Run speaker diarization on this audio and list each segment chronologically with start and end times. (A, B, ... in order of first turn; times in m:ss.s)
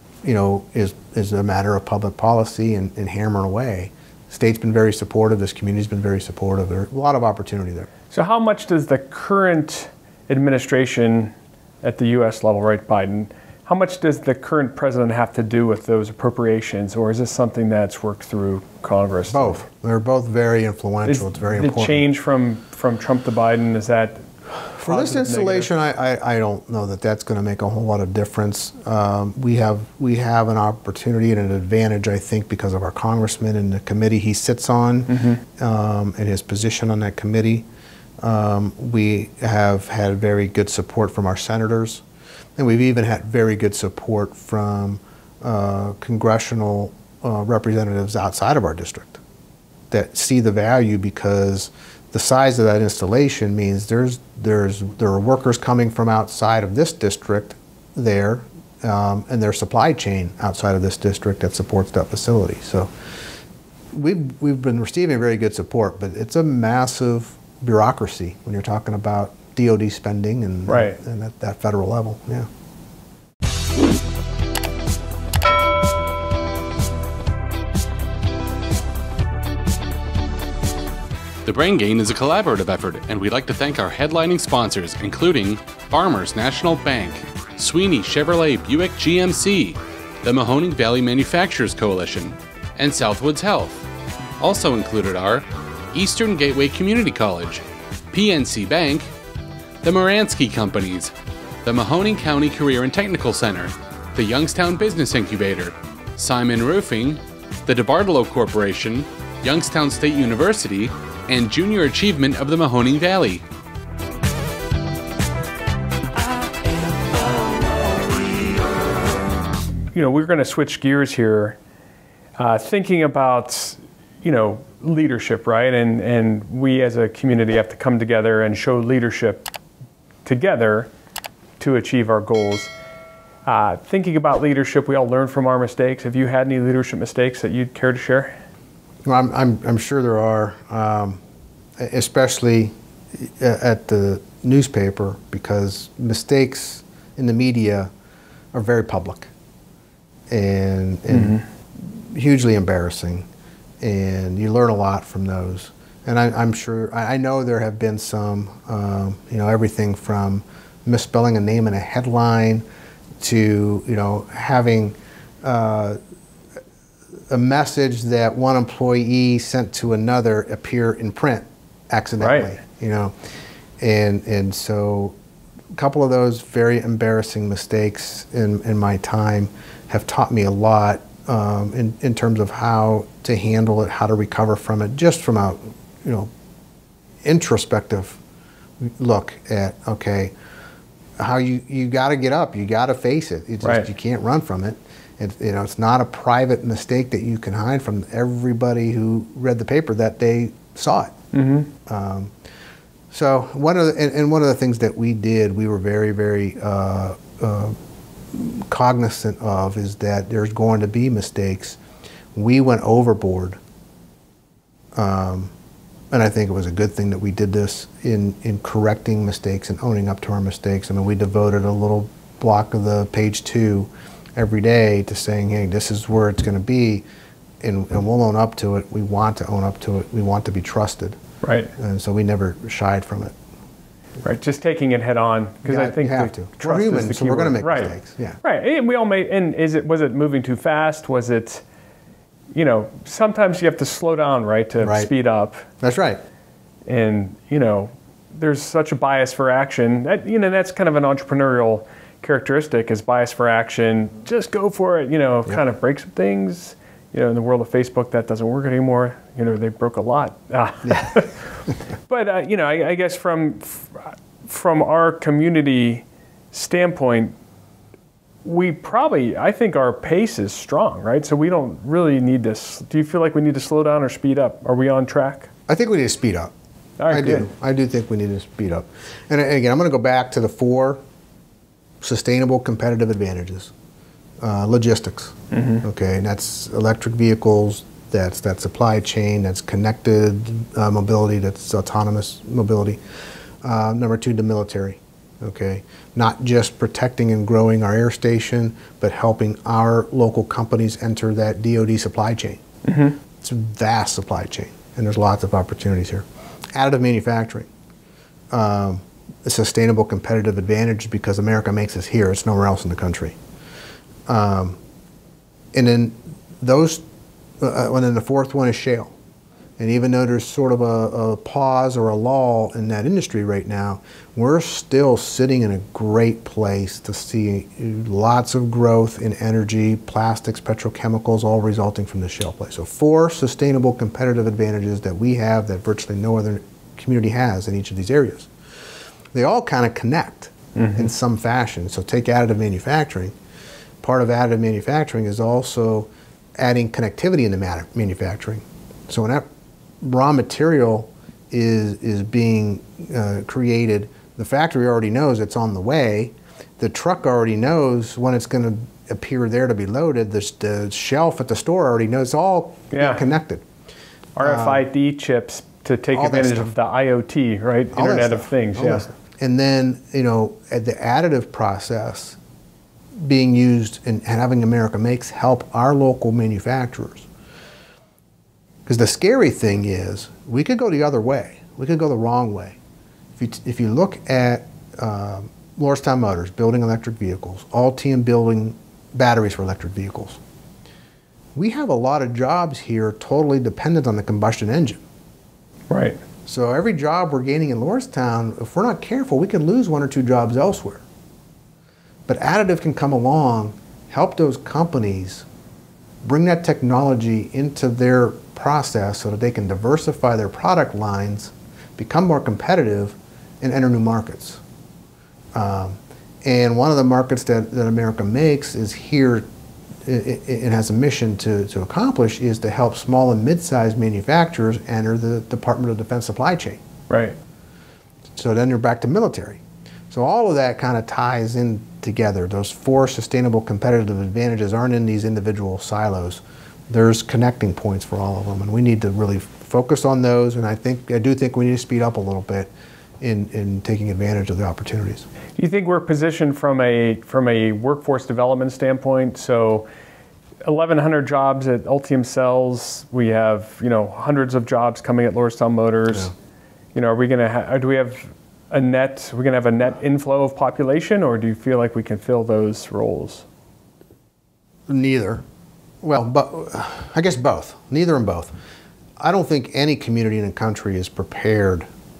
0:00.2-0:07.9 A
0:08.1-0:19.6 B
0:19.3-0:22.0 A
0:21.0-0:25.7 B
0:24.7-0:37.6 A
0:35.1-0:35.4 B
0:38.2-0:42.0 A
0:42.6-0:49.2 A
0:49.9-1:02.9 A
1:03.9-1:12.5 A
1:10.7-1:11.0 B
1:21.4-1:33.9 C
1:34.4-1:39.1 C
1:39.8-1:41.1 C
1:41.6-1:53.4 C
1:59.9-2:01.6 B
2:02.4-2:09.4 B
2:10.2-2:10.9 B
2:11.6-2:12.7 B
2:13.4-2:18.4 B
2:19.0-2:21.2 A
2:21.8-2:27.9 A
2:28.5-2:29.3 A
2:30.3-2:33.3 A
2:31.1-2:31.4 B
2:33.8-2:42.6 A
2:43.2-2:46.0 A
2:47.3-2:53.1 A
2:52.2-2:52.6 B
2:53.8-2:55.2 A
2:55.7-3:06.3 A
3:07.2-3:08.2 A
3:08.8-3:10.3 A
3:11.2-3:21.1 A
3:21.3-3:21.7 B
3:21.8-3:22.3 A
3:23.1-3:27.8 A
3:28.3-3:31.8 A
3:32.3-3:33.6 A
3:34.9-3:35.5 A
3:36.1-3:47.0 A
3:47.6-3:51.2 A
3:51.4-3:51.7 B
3:51.8-3:53.3 A
3:54.2-4:01.6 B
3:55.6-3:58.4 A
4:02.5-4:05.6 B
4:04.8-4:05.1 A
4:05.8-4:06.2 A
4:06.8-4:21.4 B
4:20.8-4:21.1 A
4:22.1-4:27.3 B
4:28.4-4:35.5 B
4:35.7-4:36.5 A
4:37.0-4:37.5 B
4:37.1-4:41.0 A
4:42.0-4:43.7 A
4:44.4-4:53.0 A
4:45.5-4:45.8 B
4:53.6-5:02.6 A
5:02.8-5:03.2 B
5:03.4-5:07.7 A
5:08.5-5:13.4 A
5:14.3-5:14.8 A
5:15.7-5:17.0 A
5:17.6-5:19.1 A
5:19.8-5:38.5 A
5:39.3-5:43.3 A
5:40.8-5:41.0 B
5:44.0-5:49.4 A
5:50.0-6:03.6 A
6:02.9-6:03.2 B
6:04.4-6:09.1 B
6:04.4-6:04.8 A
6:06.1-6:06.7 A
6:07.9-6:12.4 A
6:13.2-6:17.3 A
6:18.8-6:22.8 A
6:23.4-6:30.4 A
6:31.5-6:35.0 A
6:35.9-6:36.2 B
6:36.4-6:41.0 A
6:42.3-6:45.4 A
6:46.2-6:54.6 A
6:55.5-6:59.4 A
7:00.0-7:06.8 A
7:07.1-7:07.4 B
7:08.4-7:22.7 A
7:23.2-7:25.2 A
7:25.6-7:29.9 B
7:30.6-7:36.3 B
7:36.9-7:43.4 B
7:44.9-7:45.4 A
7:46.0-7:48.5 A
7:49.2-7:51.8 A